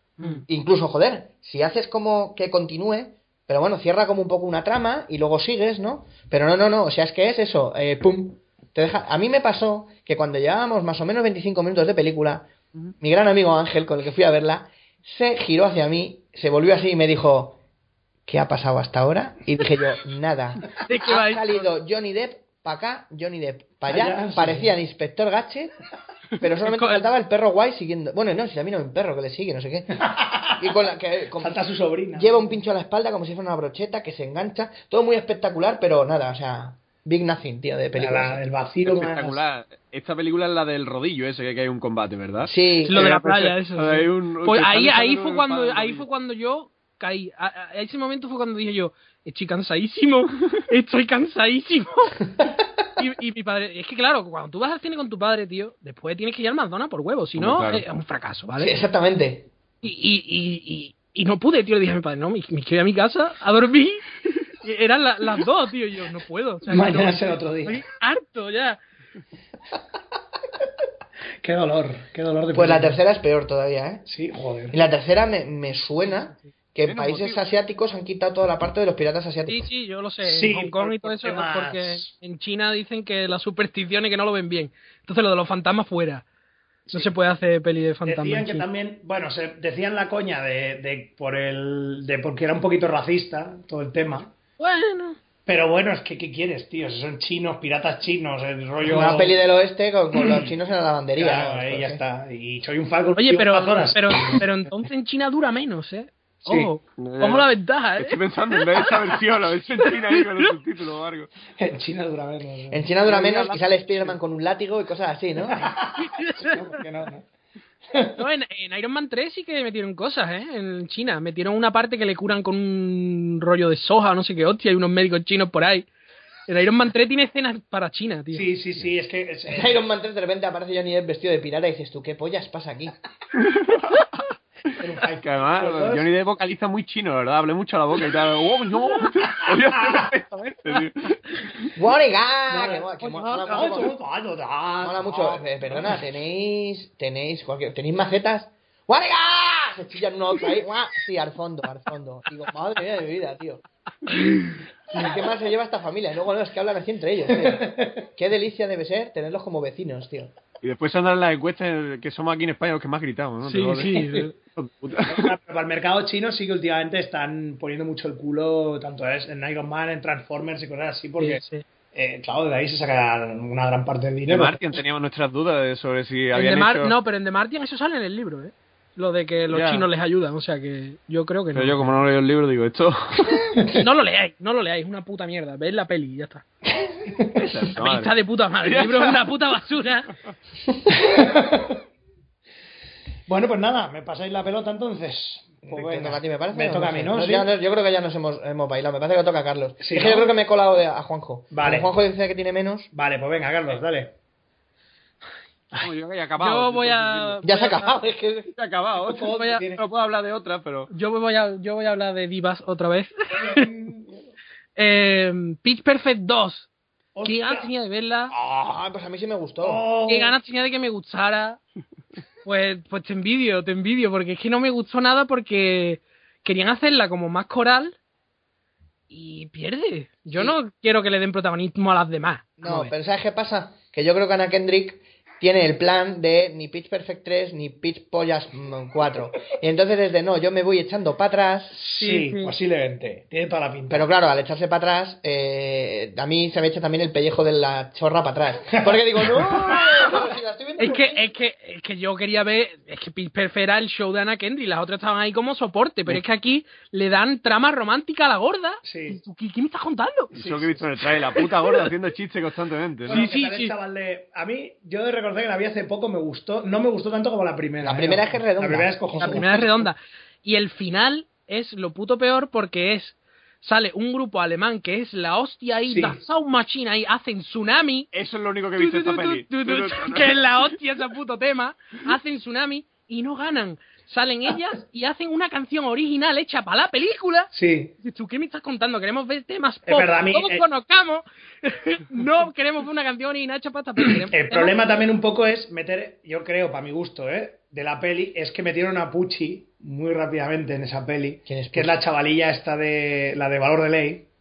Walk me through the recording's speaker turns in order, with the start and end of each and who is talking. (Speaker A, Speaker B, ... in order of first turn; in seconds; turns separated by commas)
Speaker A: 0.2-0.5, Speaker B: 0.5-17.6, Speaker B: 18.3-25.7, Speaker A: 20.9-21.6, Speaker C: 23.9-24.7, Speaker B: 26.4-30.1, Speaker A: 26.7-27.1, Speaker C: 30.0-30.7, Speaker B: 30.6-31.6, Speaker C: 31.4-32.6, Speaker B: 32.1-38.4, Speaker C: 38.0-39.4, Speaker D: 38.9-46.1, Speaker B: 42.4-43.0, Speaker A: 42.9-52.2, Speaker A: 53.0-58.8, Speaker D: 57.4-57.8, Speaker B: 58.6-59.5, Speaker A: 59.8-64.0, Speaker A: 64.6-68.8, Speaker C: 66.7-67.8, Speaker C: 71.4-73.0, Speaker B: 72.5-74.0, Speaker C: 74.1-74.8, Speaker B: 74.7-79.7, Speaker D: 76.8-77.4, Speaker A: 79.5-86.2, Speaker C: 80.2-82.1, Speaker A: 86.9-88.7, Speaker C: 88.0-94.3, Speaker A: 94.6-95.2, Speaker C: 95.5-99.4, Speaker B: 98.8-102.0, Speaker C: 100.2-100.5, Speaker C: 101.2-104.5, Speaker A: 103.2-109.2, Speaker C: 106.5-106.7, Speaker D: 107.0-111.3, Speaker A: 109.8-110.5, Speaker C: 111.6-114.2, Speaker B: 112.7-115.7, Speaker C: 115.5-117.3, Speaker A: 116.0-116.5, Speaker C: 117.9-118.2, Speaker A: 118.2-125.9, Speaker A: 126.5-128.5, Speaker C: 128.3-129.8, Speaker B: 129.5-132.9, Speaker D: 133.3-134.2, Speaker C: 134.8-136.1, Speaker D: 135.2-141.7, Speaker C: 139.5-140.1, Speaker B: 141.8-144.0, Speaker C: 142.5-146.0, Speaker B: 144.8-153.6, Speaker B: 154.9-160.3, Speaker C: 157.3-158.0, Speaker D: 160.6-165.3, Speaker A: 163.4-164.3, Speaker C: 165.1-171.4, Speaker A: 171.2-171.7, Speaker C: 171.9-174.6, Speaker D: 174.3-176.9, Speaker A: 176.3-181.9, Speaker D: 179.5-179.9, Speaker D: 181.5-183.5, Speaker A: 183.7-186.4, Speaker D: 187.3-189.3, Speaker A: 187.8-190.1, Speaker C: 190.9-191.8, Speaker C: 193.3-197.5, Speaker B: 195.7-202.9, Speaker C: 199.8-200.3, Speaker C: 201.5-201.9, Speaker C: 202.9-204.1, Speaker D: 205.8-207.4, Speaker A: 206.4-208.0, Speaker B: 207.4-208.5, Speaker D: 208.6-210.9, Speaker C: 209.0-209.8, Speaker A: 209.3-209.7, Speaker A: 210.9-213.7, Speaker C: 213.3-214.3, Speaker A: 214.8-216.7, Speaker C: 217.2-217.7, Speaker A: 217.2-218.3, Speaker B: 218.4-219.8, Speaker C: 219.6-220.4, Speaker A: 220.1-221.6, Speaker A: 222.4-228.0, Speaker A: 229.1-232.9, Speaker B: 232.6-241.8, Speaker C: 241.8-244.1, Speaker A: 241.9-242.5, Speaker B: 243.9-251.3, Speaker C: 248.8-249.8, Speaker A: 250.8-260.3, Speaker C: 258.8-259.2, Speaker D: 260.3-263.3, Speaker C: 260.3-260.9, Speaker A: 261.4-261.9, Speaker C: 263.1-269.9, Speaker A: 263.1-263.8, Speaker B: 267.8-269.5, Speaker A: 269.2-278.1, Speaker C: 275.9-276.2, Speaker D: 278.1-280.4, Speaker A: 278.8-287.5, Speaker C: 287.5-287.9, Speaker A: 288.0-294.8, Speaker C: 289.9-290.6, Speaker C: 294.0-304.3, Speaker B: 301.5-302.0